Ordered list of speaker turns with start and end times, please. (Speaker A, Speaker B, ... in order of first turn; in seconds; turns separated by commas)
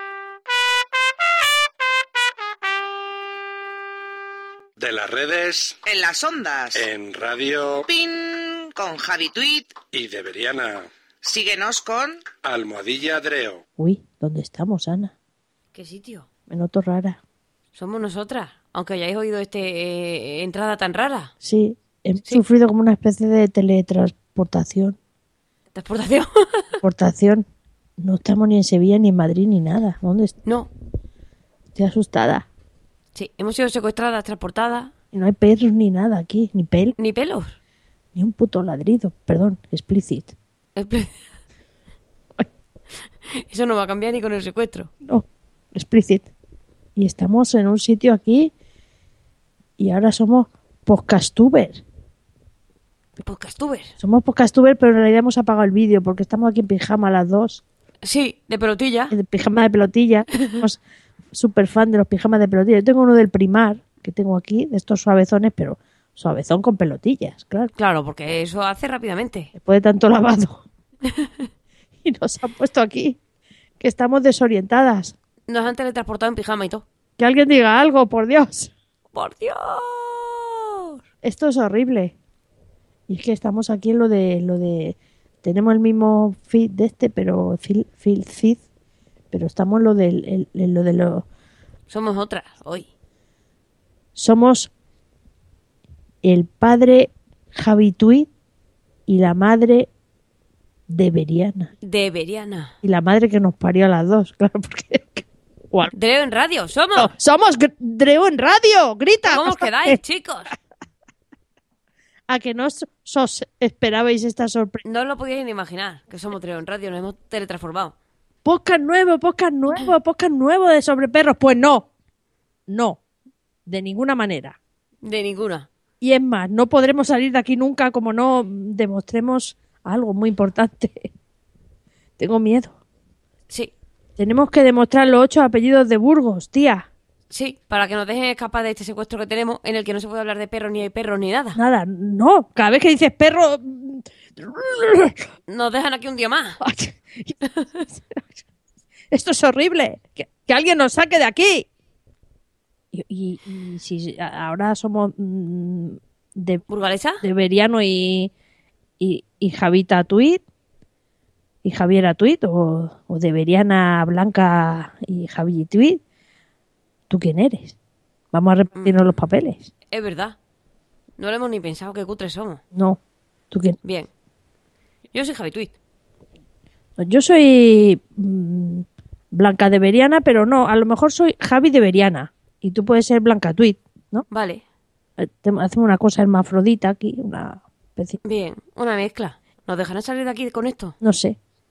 Speaker A: 4.8-5.8, Speaker B: 5.8-6.8, Speaker A: 6.7-7.9, Speaker B: 7.9-9.8, Speaker A: 9.8-10.9, Speaker B: 11.2-12.2, Speaker A: 12.3-13.6, Speaker C: 13.8-15.1, Speaker D: 15.7-16.3, Speaker C: 16.5-17.2, Speaker D: 17.7-21.3, Speaker C: 21.4-25.0, Speaker D: 25.7-26.8, Speaker C: 26.8-27.5, Speaker C: 28.0-30.3, Speaker C: 31.7-32.5, Speaker D: 33.1-34.9, Speaker C: 35.1-36.9, Speaker D: 37.0-37.5, Speaker C: 38.1-40.3, Speaker D: 40.8-41.3, Speaker D: 43.3-44.9, Speaker C: 45.0-46.3, Speaker C: 47.0-48.5, Speaker C: 49.8-51.8, Speaker D: 53.2-53.9, Speaker C: 54.0-57.6, Speaker D: 58.0-59.1, Speaker C: 59.1-60.8, Speaker C: 61.3-67.7, Speaker D: 67.8-69.5, Speaker C: 69.5-70.6, Speaker D: 71.0-71.4, Speaker C: 72.0-73.2, Speaker C: 73.8-75.1, Speaker D: 75.5-76.8, Speaker C: 77.2-78.7, Speaker D: 79.1-81.0, Speaker C: 81.2-82.1, Speaker C: 83.1-88.6, Speaker C: 89.3-91.2, Speaker D: 91.9-92.9, Speaker C: 94.1-94.7, Speaker C: 96.2-98.3, Speaker C: 99.1-99.9, Speaker C: 100.9-101.7, Speaker D: 101.8-102.7, Speaker C: 102.8-105.9, Speaker D: 105.9-107.1, Speaker C: 106.9-110.0, Speaker D: 109.3-110.5, Speaker C: 112.3-114.8, Speaker D: 114.8-117.9, Speaker C: 118.4-121.9, Speaker C: 122.7-123.0, Speaker C: 123.7-124.6, Speaker D: 125.0-125.7, Speaker C: 126.0-131.1, Speaker C: 132.2-132.8, Speaker C: 134.2-136.9, Speaker D: 137.3-141.6, Speaker C: 141.5-145.3, Speaker D: 145.5-146.6, Speaker C: 146.6-148.3, Speaker C: 149.1-151.7, Speaker C: 152.9-156.6, Speaker D: 156.7-157.2, Speaker C: 157.2-158.3, Speaker C: 159.0-160.4, Speaker C: 161.6-166.0, Speaker C: 167.1-167.8, Speaker C: 168.3-169.7, Speaker D: 168.8-169.1, Speaker D: 169.9-170.3, Speaker D: 171.2-172.6, Speaker C: 172.7-173.0, Speaker C: 173.5-173.8, Speaker D: 173.8-174.1, Speaker D: 175.1-175.7, Speaker C: 177.0-184.2, Speaker D: 184.3-184.6, Speaker C: 185.2-188.2, Speaker D: 188.2-190.9, Speaker C: 191.0-191.4